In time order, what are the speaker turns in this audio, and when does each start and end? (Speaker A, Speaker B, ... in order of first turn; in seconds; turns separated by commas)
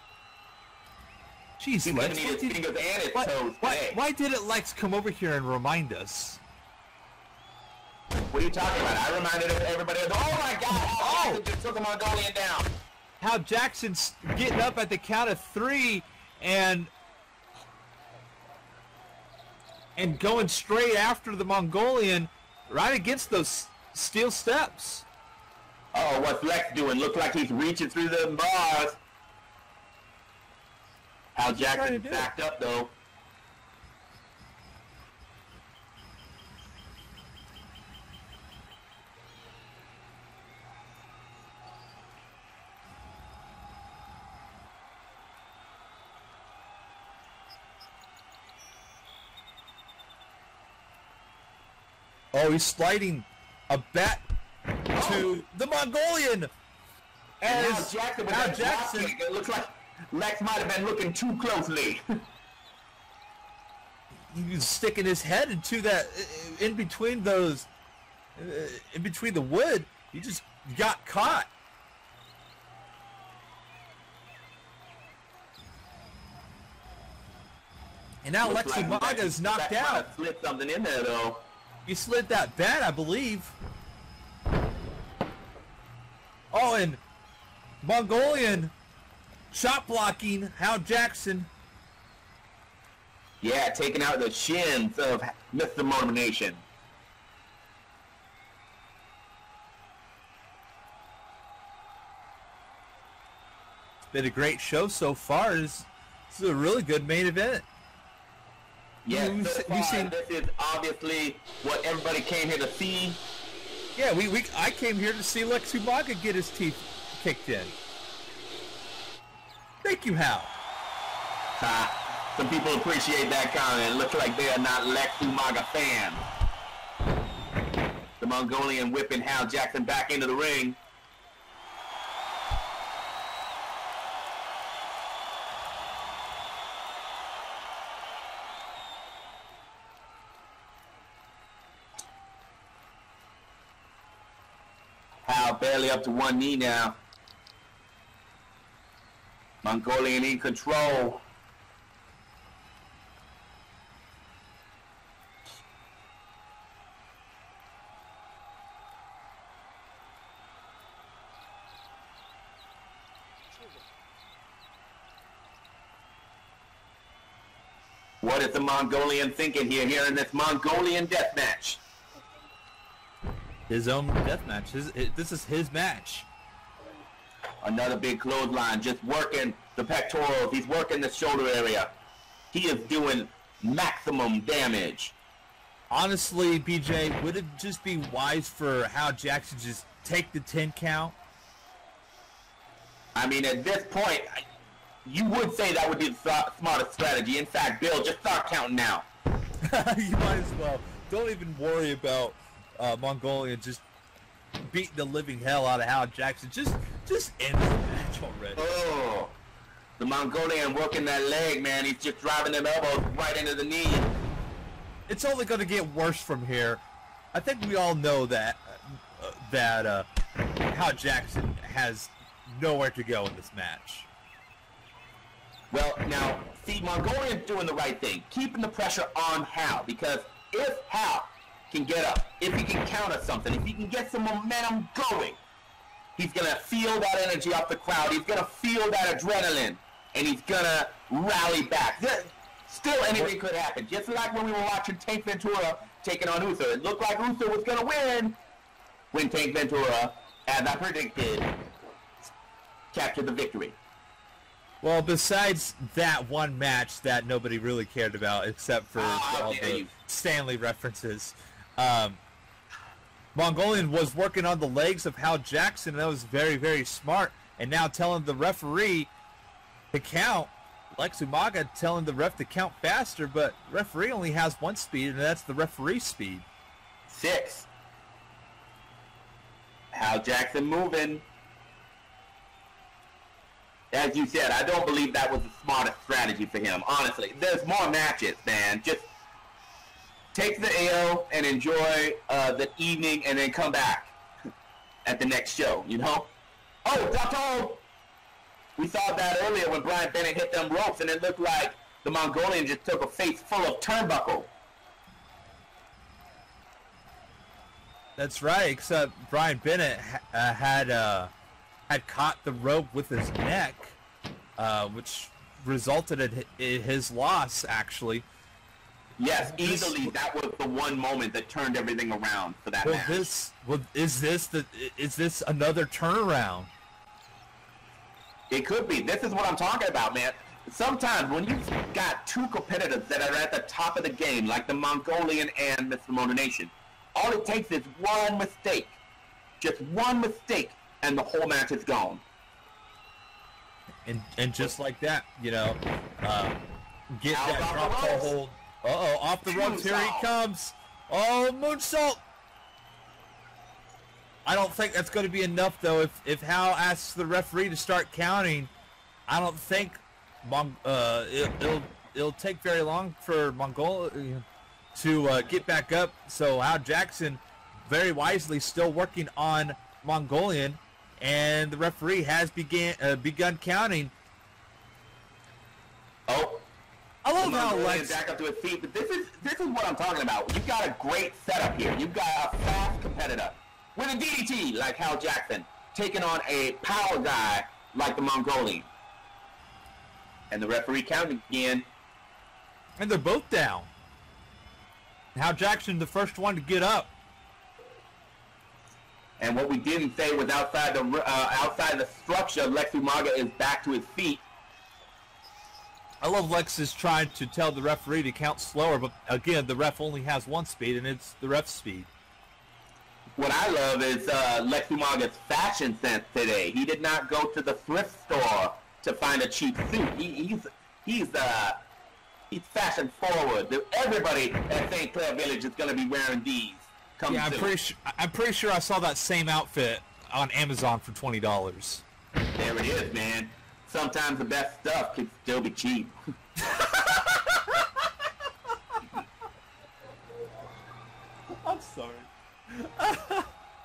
Speaker A: 1.6-2.6, Speaker B: 1.8-4.0, Speaker A: 3.1-6.4, Speaker B: 8.2-12.7, Speaker A: 10.7-11.4, Speaker A: 13.2-16.9, Speaker A: 19.9-25.0, Speaker B: 25.9-29.0, Speaker B: 31.3-32.9, Speaker A: 31.5-32.3, Speaker A: 52.3-54.2, Speaker B: 54.9-55.4, Speaker A: 55.0-56.5, Speaker B: 57.4-62.0, Speaker A: 57.4-59.1, Speaker A: 64.3-67.7, Speaker A: 68.3-71.5, Speaker A: 78.2-80.1, Speaker B: 78.4-81.4, Speaker A: 81.8-83.5, Speaker A: 86.5-87.0, Speaker A: 87.8-88.7, Speaker A: 89.5-91.5, Speaker B: 93.4-96.6, Speaker A: 104.1-107.6, Speaker B: 109.0-113.2, Speaker A: 109.1-110.1, Speaker A: 114.0-117.7, Speaker A: 119.8-120.5, Speaker B: 121.6-126.2, Speaker B: 128.2-130.8, Speaker B: 145.2-147.0, Speaker B: 149.6-151.2, Speaker B: 168.2-171.8, Speaker A: 173.7-176.3, Speaker B: 177.6-181.9, Speaker B: 182.5-185.1, Speaker A: 185.9-191.1, Speaker B: 193.1-194.4, Speaker B: 195.0-199.1, Speaker A: 199.6-203.8, Speaker A: 204.6-208.7, Speaker B: 208.6-209.3, Speaker B: 210.0-214.1, Speaker A: 215.1-220.1, Speaker A: 220.7-224.1, Speaker B: 225.7-235.4, Speaker B: 236.2-248.4, Speaker B: 249.1-251.5, Speaker B: 252.9-253.8, Speaker A: 254.8-262.2, Speaker B: 258.9-259.9, Speaker A: 263.3-269.1, Speaker A: 269.9-276.4, Speaker B: 277.1-277.7, Speaker B: 279.9-281.2, Speaker B: 283.9-289.1, Speaker B: 290.3-294.1, Speaker B: 295.0-296.3, Speaker B: 296.8-297.8, Speaker B: 298.8-304.5, Speaker A: 308.2-311.3, Speaker A: 311.9-314.0, Speaker A: 314.6-318.2, Speaker B: 319.2-323.3, Speaker A: 319.4-320.1, Speaker A: 322.8-326.7, Speaker B: 328.5-339.0, Speaker B: 339.6-342.2, Speaker A: 344.0-352.2, Speaker B: 347.3-348.3, Speaker B: 349.5-350.3, Speaker A: 354.4-358.7, Speaker A: 359.3-374.1, Speaker B: 376.3-376.6, Speaker A: 377.2-378.2, Speaker B: 377.4-388.9, Speaker B: 390.5-391.9, Speaker A: 393.0-393.9, Speaker A: 395.3-397.1, Speaker B: 399.4-404.4, Speaker A: 406.2-412.1, Speaker B: 413.4-421.8, Speaker B: 422.5-427.7, Speaker A: 427.3-432.0, Speaker B: 432.6-436.1, Speaker A: 436.6-438.3, Speaker A: 438.9-439.2, Speaker A: 441.6-443.5